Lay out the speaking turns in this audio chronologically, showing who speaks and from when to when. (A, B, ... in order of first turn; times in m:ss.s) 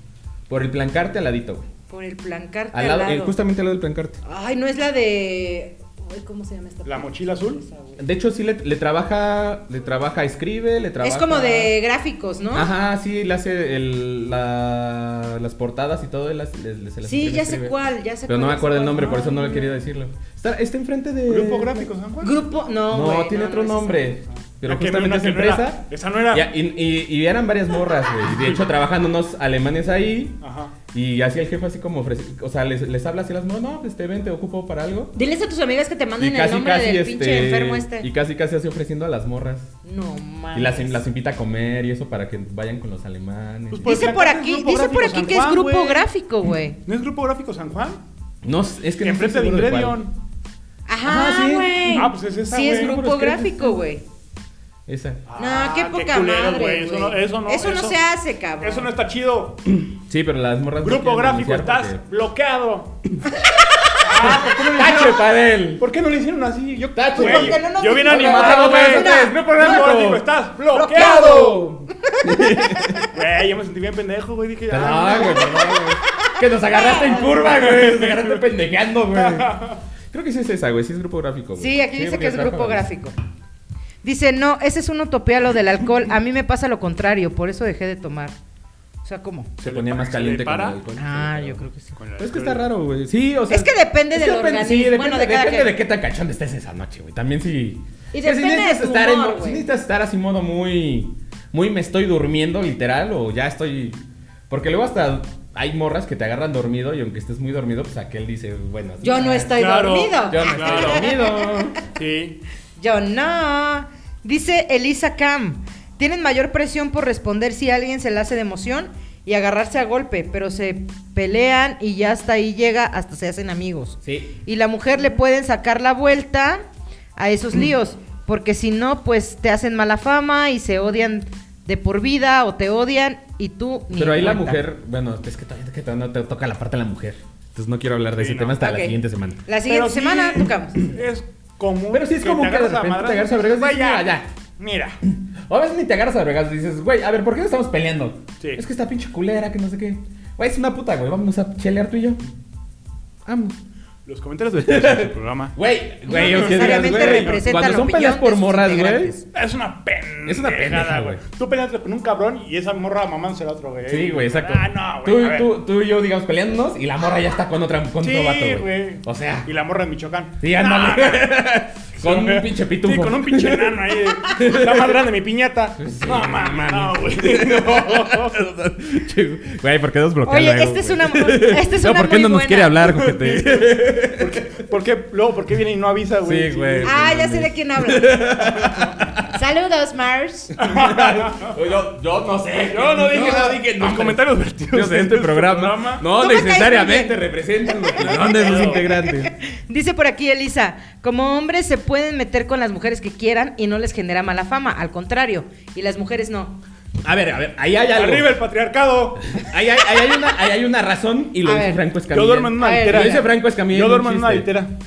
0:00.5-0:01.6 A
0:01.9-0:03.3 B
0:02.7-0:04.2 A
0:04.2-0:08.0 B
0:06.8-0:07.6 C
0:08.0-0:11.7 A
0:11.0-0:12.7 B
0:12.5-0:17.7 A
0:17.0-0:19.7 B
0:18.3-0:21.9 A
0:21.3-0:22.3 C
0:22.2-0:24.1 B
0:22.9-0:30.4 A
0:24.6-0:26.5 C
0:28.3-0:28.6 C
0:30.4-0:30.8 C
0:30.9-0:35.1 A
0:35.1-0:38.1 B
0:36.2-0:39.7 A
0:39.8-0:41.0 B
0:40.5-0:44.1 A
0:43.7-0:46.1 C
0:43.8-0:46.8 B
0:46.8-0:48.0 C
0:48.4-0:50.0 A
0:49.0-0:50.1 C
0:50.9-0:54.0 B
0:51.0-0:52.0 A
0:51.9-0:53.0 C
0:52.6-0:53.8 A
0:54.9-0:55.2 A
0:55.3-0:58.0 C
0:55.4-0:58.9 B
0:58.6-0:59.7 C
0:59.8-1:02.0 A
1:00.8-1:03.0 C
1:04.0-1:11.7 C
1:04.1-1:05.8 A
1:06.9-1:10.2 A
1:07.1-1:09.7 B
1:10.7-1:13.1 B
1:10.9-1:13.0 A
1:13.1-1:15.6 C
1:14.7-1:19.6 A
1:15.0-1:17.5 B
1:17.6-1:18.4 C
1:19.1-1:19.8 C
1:20.1-1:22.9 A
1:21.6-1:23.2 B
1:24.0-1:28.3 B
1:29.0-1:29.5 B
1:29.6-1:31.6 A
1:29.6-1:30.8 C
1:31.0-1:31.9 B
1:32.0-1:32.6 C
1:32.2-1:49.6 A
1:33.5-1:35.7 B
1:38.1-1:39.6 B
1:49.0-1:51.6 B
1:49.6-1:51.1 C
1:50.3-1:51.8 A
1:51.9-1:52.4 C
1:52.8-2:06.6 B
2:04.0-2:04.3 A
2:07.2-2:14.6 B
2:13.9-2:19.4 A
2:18.2-2:18.6 C
2:18.6-2:20.9 B
2:19.6-2:25.0 C
2:21.9-2:24.3 A
2:25.1-2:32.2 A
2:33.3-2:33.6 A
2:34.0-2:35.6 C
2:34.6-2:39.1 A
2:36.1-2:39.2 B
2:36.1-2:37.3 C
2:39.3-2:45.5 C
2:40.3-2:41.2 A
2:43.8-2:49.5 A
2:48.0-2:51.4 C
2:50.4-2:55.0 A
2:52.0-2:58.4 C
2:55.8-3:04.6 A
3:00.2-3:02.8 B
3:02.8-3:07.0 C
3:06.2-3:09.3 A
3:06.8-3:08.4 B
3:08.6-3:08.9 C
3:09.3-3:10.5 B
3:10.6-3:19.3 A
3:10.6-3:11.6 C
3:12.6-3:16.0 C
3:16.1-3:17.2 B
3:18.0-3:18.9 C
3:18.1-3:26.6 B
3:27.0-3:28.4 A
3:27.9-3:29.4 C
3:29.3-3:34.5 A
3:31.4-3:31.9 B
3:32.1-3:34.7 C
3:32.5-3:33.2 B